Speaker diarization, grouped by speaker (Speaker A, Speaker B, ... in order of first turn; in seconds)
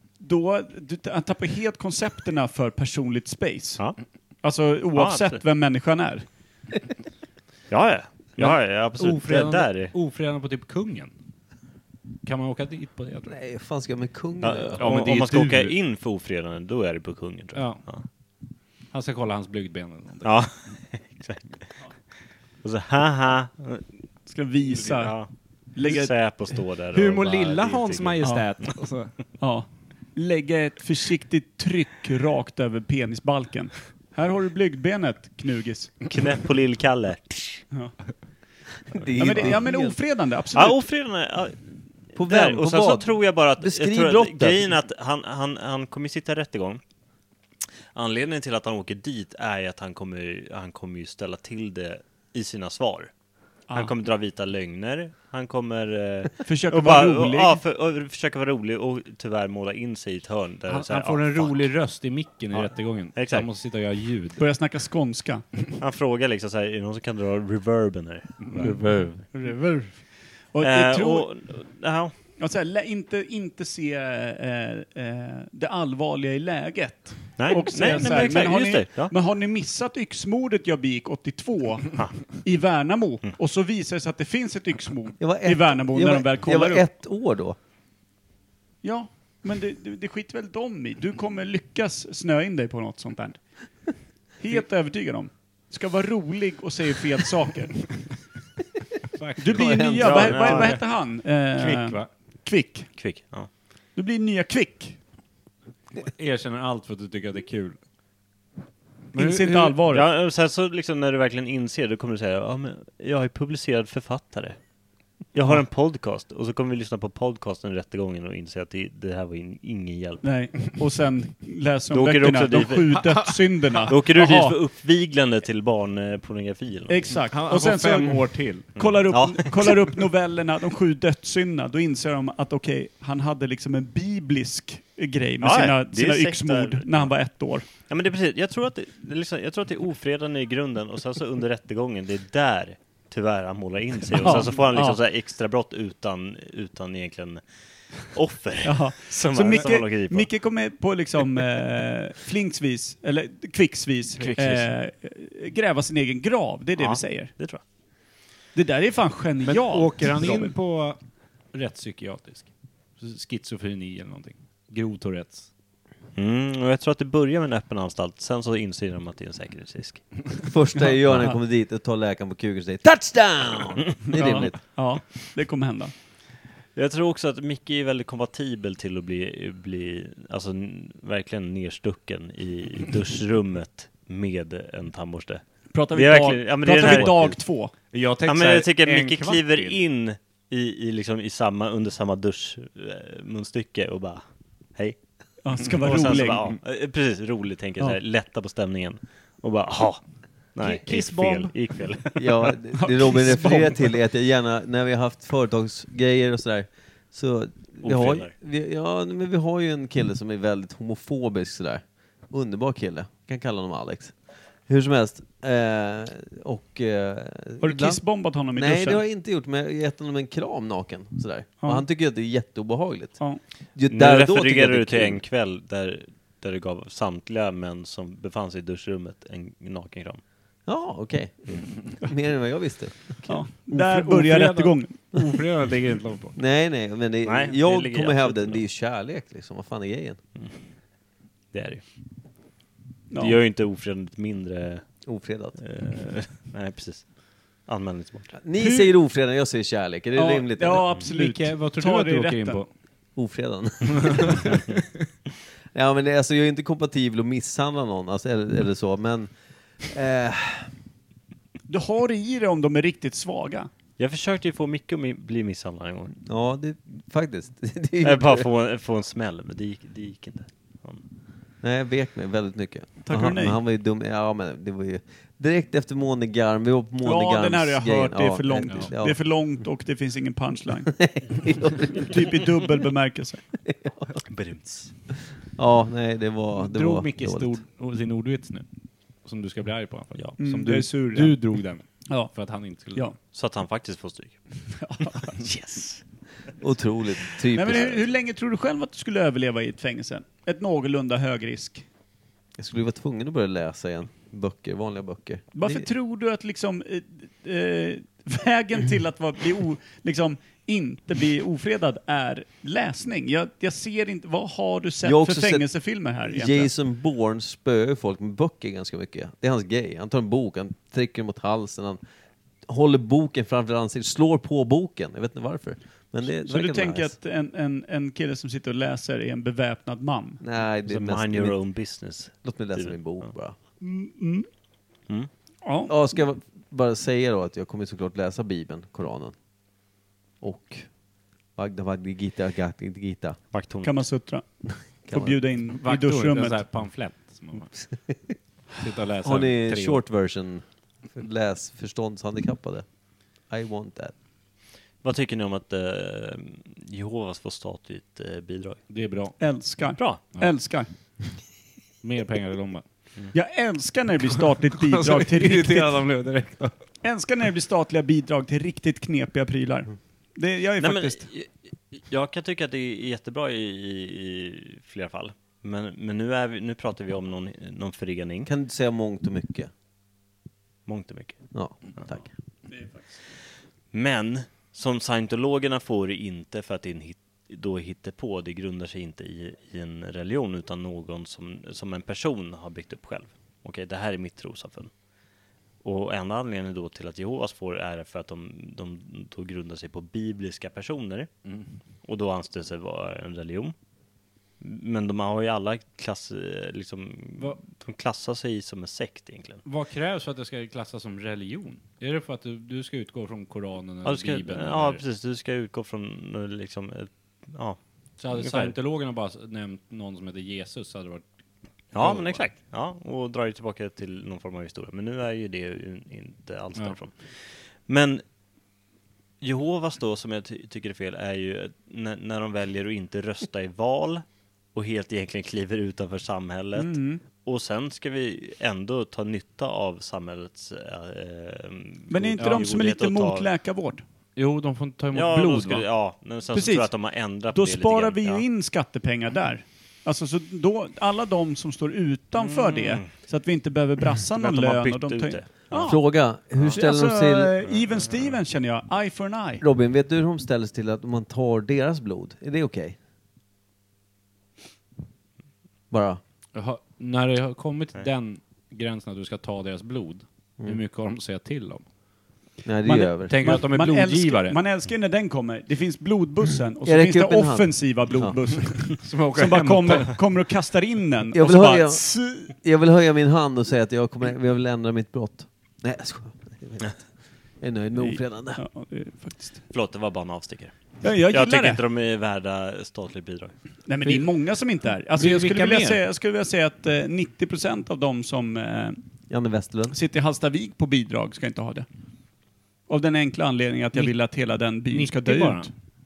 Speaker A: 0.2-3.8, 4.4-6.2, 24.3-25.2, 25.8-26.1, 29.4-36.0, 39.2-40.8, 56.4-57.6, 64.4-65.5, 69.3-71.3, 72.4-86.9, 88.8-93.5, 94.4-97.9, 99.4-102.9, 104.0-105.0, 109.1-110.1, 120.2-124.6, 126.9-137.7, 144.2-145.0, 148.6-157.3, 158.5-160.6, 174.1-175.9, 185.7-187.7, 195.4-196.5, 202.8-203.9, 217.6-219.0, 233.3-235.0, 243.1-243.4, 248.6-248.9, 250.2-252.6, 261.7-263.7, 273.1-273.6, 277.0-280.9, 281.9-283.4, 290.4-291.4, 292.1-292.3, 294.8-295.4, 297.5-301.9, 305.6-316.7, 326.3-330.4, 333.8-334.5, 335.6-336.0, 343.8-346.6, 359.4-360.9, 363.3-366.0, 367.0-371.3, 382.7-383.2, 436.8-437.2, 442.1-444.0, 446.5-446.9, 447.5-456.0, 456.7-459.6, 472.9-482.4, 488.0-489.6, 491.0-491.8, 493.9-499.0, 499.9-501.9, 502.9-505.7
Speaker B: 5.0-5.4, 7.7-9.9, 14.4-18.1, 20.2-21.6, 22.6-23.9, 24.7-28.7, 36.1-37.6, 40.5-46.8, 47.9-53.1, 53.7-61.7, 62.5-63.5, 65.8-69.1, 70.6-72.1, 77.4-79.1, 100.0-100.8, 103.0-103.5, 109.9-114.6, 115.3-120.3, 121.9-123.0, 123.9-127.1, 128.8-129.9, 135.4-137.1, 137.7-150.3, 156.8-157.6, 166.2-170.0, 176.8-187.4, 188.2-194.2, 195.6-200.0, 200.6-202.5, 207.8-208.3, 223.9-230.2, 237.2-238.6, 241.5-241.8, 243.2-244.9, 245.6-247.1, 247.7-248.3, 264.0-266.2, 268.0-271.0, 284.3-284.9, 293.3-294.4, 295.3-296.0, 330.9-333.3, 343.5-344.1, 355.0-358.8, 370.8-378.5, 380.9-381.4, 383.9-394.9, 395.8-401.3, 402.1-403.8, 404.6-409.6, 414.1-417.8, 418.3-418.8, 421.9-428.2, 429.4-443.5, 445.1-448.4, 452.4-453.1, 454.4-455.9, 457.7-458.4, 489.7-493.5
Speaker C: 8.4-11.1, 12.2-13.3, 14.8-15.8, 17.6-17.8, 18.9-20.4, 26.9-29.1, 60.7-64.4, 68.4-69.3, 99.1-102.1, 106.0-107.8, 109.1-109.8, 123.0-123.8, 127.3-128.7, 154.2-154.6, 159.4-161.0, 161.5-165.5, 186.8-187.1, 187.9-189.8, 200.6-201.6, 233.6-236.4, 251.0-252.7, 254.1-254.5, 286.5-288.7, 289.2-293.1, 345.7-347.7, 348.7-350.1, 358.9-359.8, 362.0-362.9, 364.7-366.8, 401.4-401.7, 409.6-415.0, 418.2-421.2, 422.0-422.4, 444.4-445.9, 466.6-471.9, 473.2-474.6, 479.0-480.1, 494.0-494.3, 495.1-496.0, 503.9-505.7
Speaker D: 13.3-15.0, 38.9-40.0, 42.1-44.7, 85.2-87.6, 99.6-100.0, 170.5-174.6, 202.2-214.2, 214.7-218.0, 218.6-223.2, 223.8-225.2, 230.7-233.2, 236.4-240.2, 245.1-245.6, 248.4-250.9, 253.2-254.6, 255.7-259.3, 259.8-260.7, 266.2-268.5, 271.6-279.2, 280.9-282.3, 283.7-284.0, 285.6-287.5, 296.6-298.1, 302.6-305.9, 315.0-315.7, 316.2-322.0, 322.7-327.2, 330.4-331.6, 332.4-333.6, 335.9-339.3, 340.4-340.9, 341.6-343.4, 345.1-345.4, 349.2-352.9, 353.5-354.1, 378.4-379.7, 381.5-382.2, 455.8-457.6, 459.6-463.0, 465.9-466.2, 472.6-473.4, 476.9-478.4, 481.3-487.0, 487.6-488.6, 499.3-499.9